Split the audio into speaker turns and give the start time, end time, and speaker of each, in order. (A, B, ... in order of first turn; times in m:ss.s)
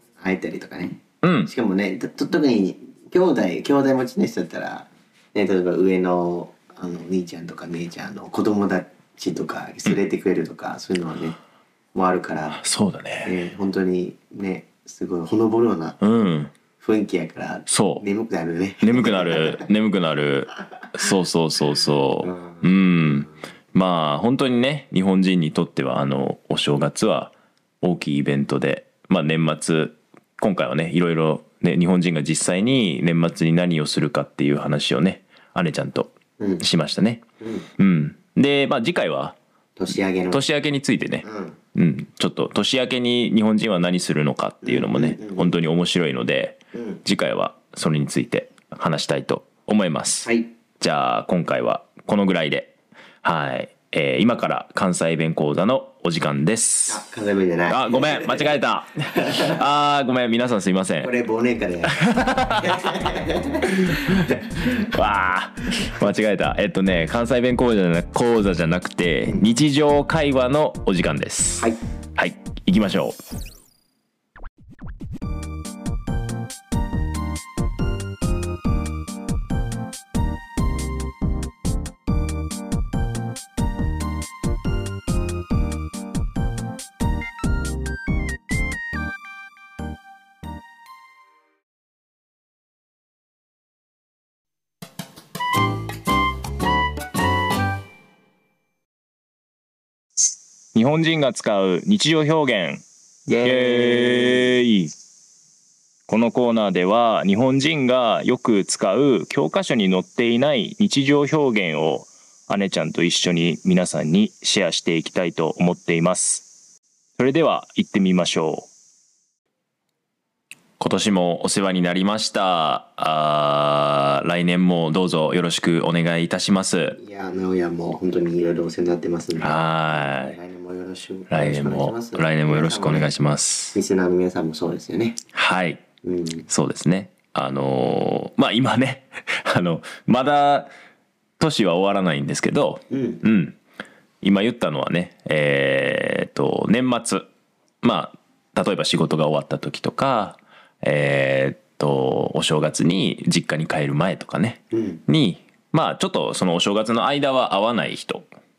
0:00.2-0:11.4 A
0:01.2-0:01.5 B
0:11.9-0:12.6 A
0:12.6-0:13.3 B
0:13.2-0:16.0 A
0:16.0-0:16.5 B
0:16.8-0:19.7 A
0:17.7-0:18.0 B
0:18.8-0:37.2 B
0:22.2-0:23.2 A
0:36.4-0:36.6 A
0:37.4-0:37.7 A
0:37.8-0:39.4 B
0:39.8-0:40.5 A
0:40.3-0:57.0 B
0:41.2-0:41.6 A
0:44.6-0:45.6 A
0:46.7-0:47.0 A
0:50.2-0:50.5 A
0:56.9-0:59.6 A
0:57.7-1:01.1 B
1:01.0-1:04.9 A
1:01.9-1:03.1 B
1:03.9-1:04.2 B
1:04.8-1:13.2 B
1:40.7-1:42.8 C
1:43.3-1:44.5 A
1:43.4-1:44.9 C
1:46.1-1:56.5 C
1:57.2-1:58.7 C
2:00.8-2:07.0 B
2:07.0-2:13.1 A
2:09.4-2:10.4 B
2:11.3-2:13.8 B
2:13.7-2:15.2 A
2:15.3-2:15.8 B
2:16.0-2:16.5 A
2:16.5-2:20.7 B
2:21.4-2:23.6 B
2:22.9-2:23.2 A
2:24.2-2:27.3 B
2:27.8-2:38.3 B
2:34.7-2:35.0 A